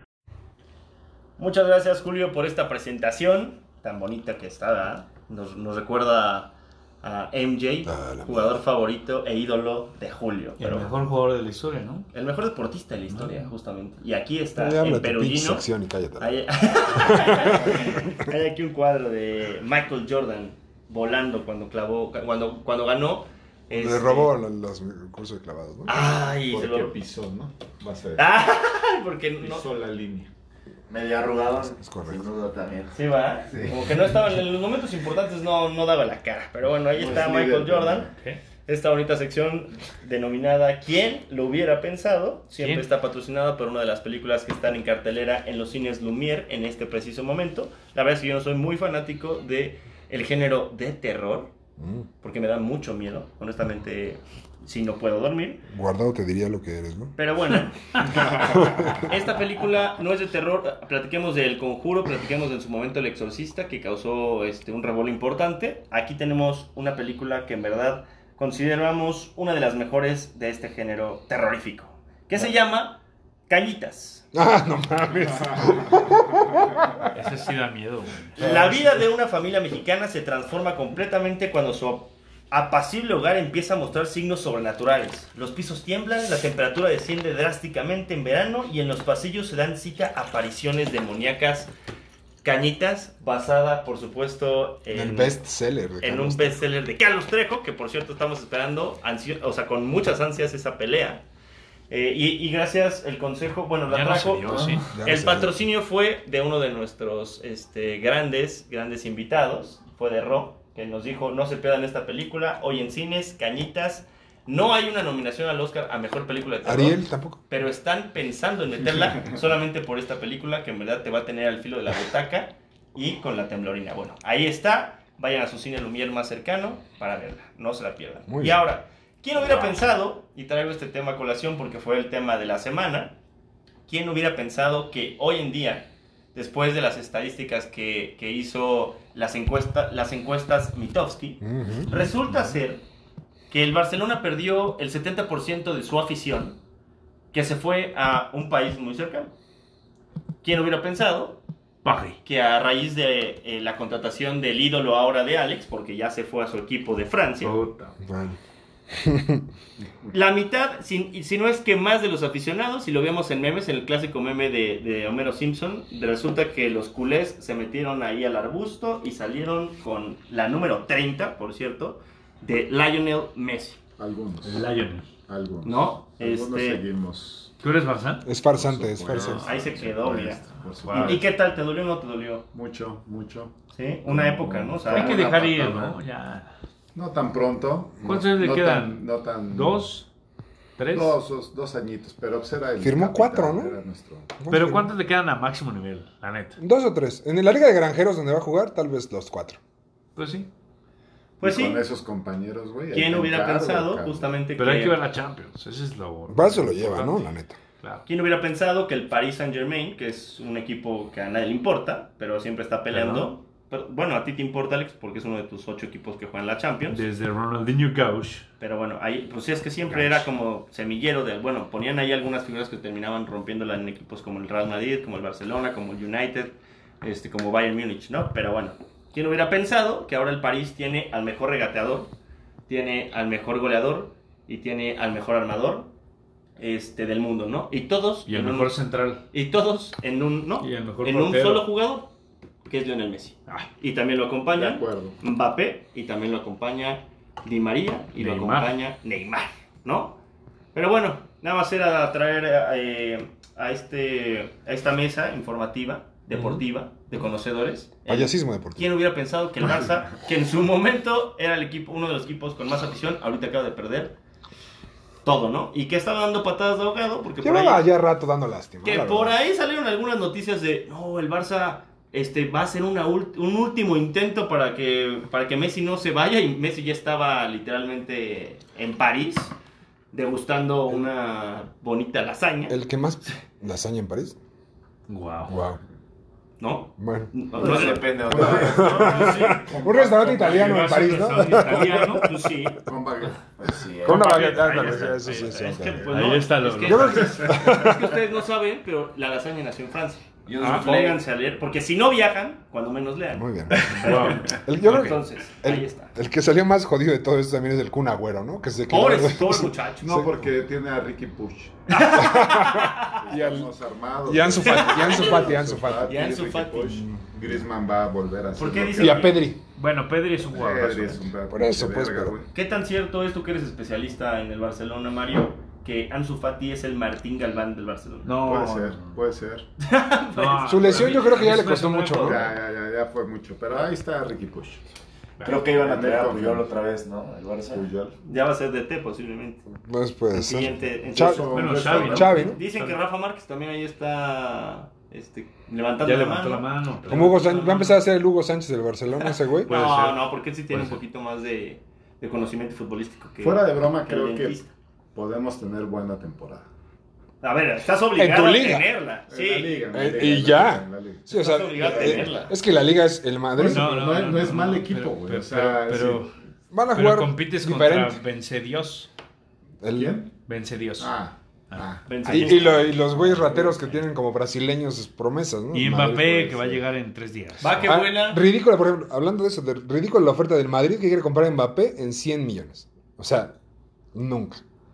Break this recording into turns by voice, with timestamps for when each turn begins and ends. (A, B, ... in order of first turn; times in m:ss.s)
0:01.4-0:11.1 A
0:07.8-0:08.5 B
0:10.6-0:12.1 C
0:12.1-0:15.7 A
0:13.1-0:13.5 C
0:14.6-0:18.3 B
0:16.2-0:24.3 A
0:23.7-0:26.1 B
0:25.8-0:26.9 A
0:26.5-0:28.2 D
0:28.2-0:29.6 A
0:29.4-0:30.3 D
0:30.9-0:33.0 E
0:31.8-0:32.2 B
0:32.9-0:38.1 A
0:37.0-0:38.0 E
0:37.0-0:38.0 D
0:38.2-0:38.4 C
0:38.6-0:51.5 A
0:42.6-0:42.8 C
0:51.8-0:52.1 B
0:52.2-0:55.6 A
0:55.7-0:57.1 B
0:57.2-1:14.2 A
0:58.4-0:59.1 B
1:14.3-1:17.1 B
1:17.1-1:18.5 C
1:18.4-1:31.7 A
1:18.4-1:18.8 B
1:32.4-1:35.4 A
1:34.9-1:36.6 B
1:36.0-1:41.2 A
1:41.9-2:13.1 A
1:43.9-1:44.8 C
1:44.9-1:45.5 B
1:56.6-1:57.4 B
2:08.3-2:08.6 B
2:13.9-2:22.8 A
2:21.4-2:21.9 B
2:23.5-2:26.6 A
2:27.3-2:29.3 A
2:30.4-2:31.4 A
2:31.8-2:32.2 C
2:32.2-2:37.6 A
2:37.4-2:38.0 C
2:38.0-2:38.4 B
2:38.9-2:39.5 B
2:40.1-2:53.8 A
2:54.0-2:54.6 D
2:54.4-2:55.1 C
2:55.2-2:57.5 D
2:55.6-2:56.8 A
2:57.6-2:58.2 C
2:58.2-2:59.5 B
2:58.4-3:01.3 D
2:59.2-3:02.4 A
3:00.8-3:01.2 C
3:02.5-3:03.5 D
3:03.7-3:05.4 A
3:04.0-3:06.0 D
3:04.9-3:06.5 C
3:06.9-3:09.9 D
3:08.0-3:10.1 C
3:10.8-3:11.2 C
3:10.9-3:14.3 D
3:12.8-3:13.8 B
3:14.4-3:14.9 B
3:14.5-3:16.6 C
3:16.6-3:19.6 B
3:20.2-3:20.5 C
3:21.4-3:21.8 A
3:21.4-3:24.3 D
3:22.9-3:25.0 A
3:24.6-3:27.2 C
3:26.3-3:27.6 B
3:28.0-3:37.0 A
3:32.9-3:33.3 C
3:36.9-3:38.4 C
3:38.6-3:52.1 A
3:52.7-3:55.9 A
3:56.6-4:02.1 A
3:58.3-3:59.2 C
4:00.6-4:01.6 C
4:02.6-4:10.2 A
4:04.5-4:05.2 D
4:08.2-4:08.7 C
4:10.7-4:24.1 A
4:18.1-4:18.9 B
4:25.2-4:27.8 A
4:27.4-4:29.4 B
4:28.8-4:39.5 A
4:40.1-4:42.8 A
4:42.7-4:44.4 B
4:45.1-4:45.5 C
4:45.5-4:45.8 B
4:46.6-4:49.7 A
4:47.0-4:47.3 B
4:47.5-4:49.6 E
4:48.3-4:51.0 D
4:48.3-4:52.4 B
4:50.4-4:52.3 C
4:51.5-4:52.8 A
4:52.8-4:53.8 D
4:53.6-4:54.6 E
4:54.0-4:56.1 B
4:54.0-5:06.1 A
4:54.6-4:55.5 D
4:56.1-4:57.6 C
4:56.8-4:58.1 B
5:00.4-5:01.2 E
5:00.6-5:00.9 C
5:03.3-5:10.5 B
5:03.9-5:05.1 C
5:08.9-5:10.1 A
5:10.0-5:12.4 D
5:11.9-5:13.2 A
5:12.1-5:13.7 B
5:13.1-5:19.4 D
5:14.2-5:16.2 B
5:14.6-5:17.0 A
5:17.1-5:17.6 B
5:18.6-5:19.5 A
5:19.0-5:19.6 B
5:19.7-5:21.3 C
5:20.5-5:22.5 D
5:21.5-5:22.4 B
5:22.5-5:28.3 A
5:28.2-5:29.1 C
5:28.4-5:29.7 D
5:29.8-5:31.3 A
5:30.3-5:32.5 C
5:30.6-5:32.5 B
5:32.2-5:34.9 D
5:35.4-5:37.9 E
5:35.6-5:36.7 D
5:37.7-5:38.1 D
5:38.2-5:39.6 A
5:39.8-5:42.6 B
5:40.3-5:47.9 A
5:41.1-5:42.5 D
5:41.5-5:43.0 C
5:46.0-5:47.5 C
5:47.1-5:49.7 B
5:49.6-5:54.7 A
5:49.6-5:51.0 C
5:53.4-5:54.6 D
5:55.1-5:56.7 D
5:57.4-6:00.0 A
5:58.2-5:58.9 B
5:59.3-6:02.5 D
5:59.9-6:04.0 B
6:01.3-6:02.5 A
6:03.6-6:06.2 D
6:03.6-6:06.3 C
6:06.7-6:08.2 B
6:06.9-6:09.1 C
6:09.8-6:10.2 B
6:09.9-6:10.3 D
6:10.5-6:11.1 C
6:11.0-6:13.8 D
6:12.1-6:13.0 A
6:12.2-6:16.8 B
6:15.7-6:17.9 C
6:17.6-6:18.4 A
6:17.8-6:23.6 B
6:24.1-6:24.6 B